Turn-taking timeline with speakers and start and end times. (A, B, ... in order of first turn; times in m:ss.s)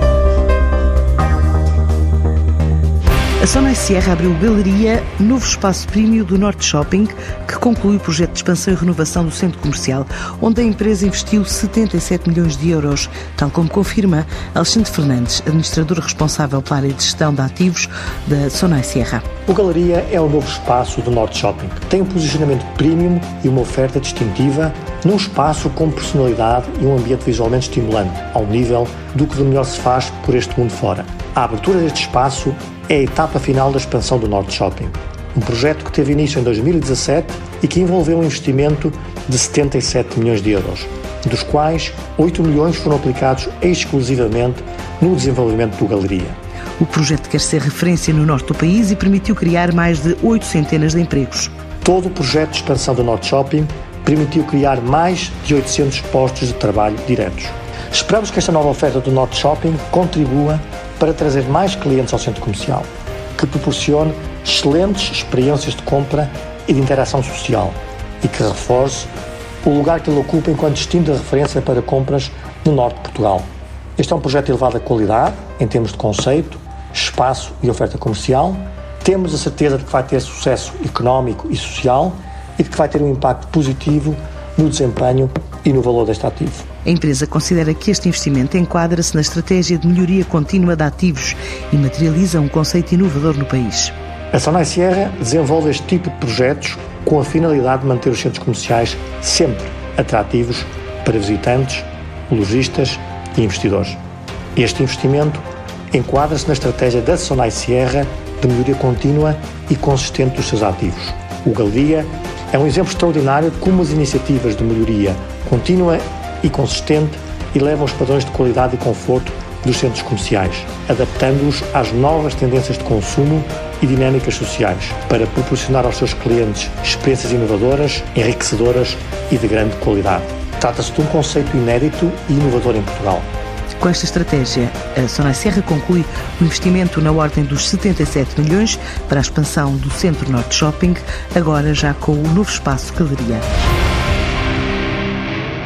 0:03.4-0:19.3 A
0:19.5-0:46.4 B
0:46.8-0:51.5 A
0:51.8-1:09.1 B
1:09.6-1:26.7 B
1:26.8-1:33.9 A
1:34.3-1:44.0 B
1:44.6-2:13.3 B
2:13.8-2:23.5 A